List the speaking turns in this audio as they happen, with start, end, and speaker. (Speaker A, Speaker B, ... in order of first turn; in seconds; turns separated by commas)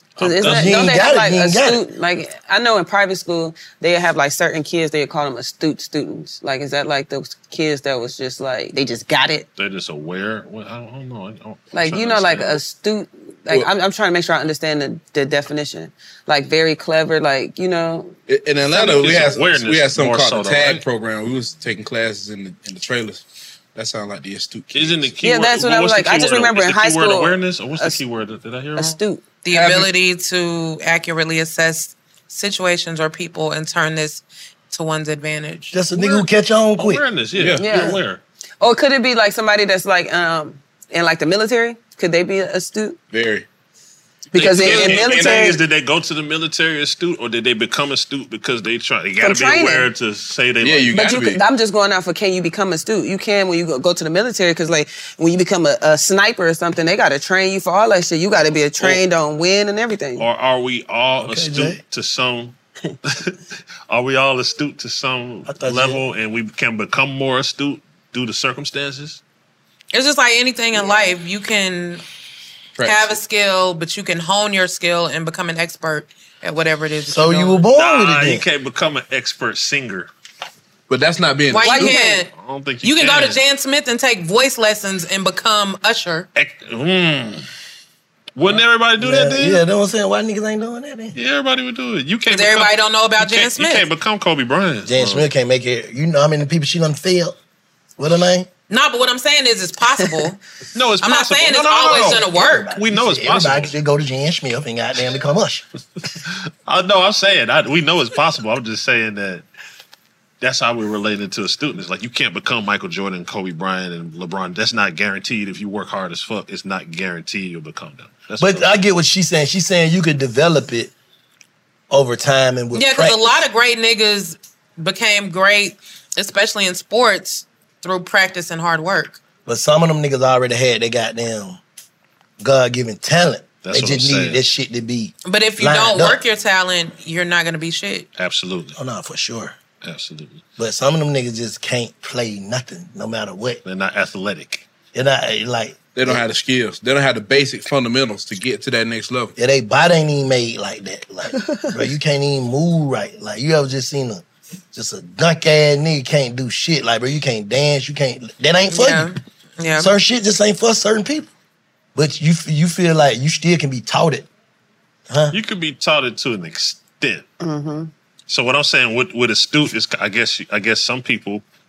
Speaker A: 0.2-1.0, Speaker B: 0.2-9.5, Speaker C: 0.4-1.8, Speaker A: 9.6-12.6, Speaker B: 11.7-18.2, Speaker D: 18.3-23.2, Speaker B: 18.7-19.0, Speaker A: 18.8-20.9, Speaker D: 23.8-25.1, Speaker A: 24.7-29.0, Speaker B: 25.2-28.0, Speaker B: 28.8-29.2, Speaker E: 29.4-35.8, Speaker D: 29.5-29.9, Speaker C: 35.7-37.0, Speaker A: 36.0-36.3, Speaker A: 36.8-38.2, Speaker D: 37.4-37.7, Speaker B: 37.6-38.0, Speaker B: 38.6-43.0, Speaker D: 43.1-43.5, Speaker D: 44.3-45.5, Speaker B: 44.3-45.6, Speaker A: 44.6-51.0, Speaker B: 49.2-49.9, Speaker D: 50.6-51.4, Speaker B: 50.9-60.3, Speaker A: 60.2-62.5, Speaker C: 61.2-61.8, Speaker A: 63.1-63.4, Speaker A: 63.9-69.2, Speaker C: 65.5-66.0, Speaker E: 69.9-72.0, Speaker B: 70.8-71.0, Speaker D: 72.8-73.2, Speaker E: 72.8-77.6, Speaker C: 77.1-78.4, Speaker A: 77.7-80.1, Speaker D: 80.9-81.9, Speaker E: 81.5-82.3, Speaker B: 81.8-82.2, Speaker A: 82.3-83.4, Speaker E: 82.8-86.3, Speaker A: 86.3-87.5, Speaker A: 88.4-89.6, Speaker C: 89.0-91.2, Speaker A: 91.2-95.3, Speaker E: 92.3-93.9, Speaker C: 94.9-97.4, Speaker C: 98.0-98.5, Speaker E: 98.7-100.4, Speaker A: 100.8-103.7, Speaker E: 101.0-102.7, Speaker C: 102.2-105.7, Speaker A: 106.3-109.5, Speaker A: 110.4-118.8, Speaker C: 118.4-120.9, Speaker C: 121.9-123.4, Speaker E: 122.7-129.2, Speaker C: 129.5-131.6, Speaker C: 132.4-136.2, Speaker A: 133.6-134.4, Speaker E: 135.3-138.1, Speaker A: 138.2-138.8, Speaker C: 138.8-139.6, Speaker A: 139.8-140.5, Speaker C: 140.6-143.6, Speaker A: 143.7-144.7, Speaker C: 144.9-146.2, Speaker D: 145.9-149.3, Speaker C: 149.4-159.1, Speaker E: 158.7-159.9, Speaker C: 159.8-161.3, Speaker C: 162.0-164.3, Speaker C: 165.1-165.4, Speaker A: 165.3-167.3, Speaker B: 167.4-167.9, Speaker A: 168.3-171.4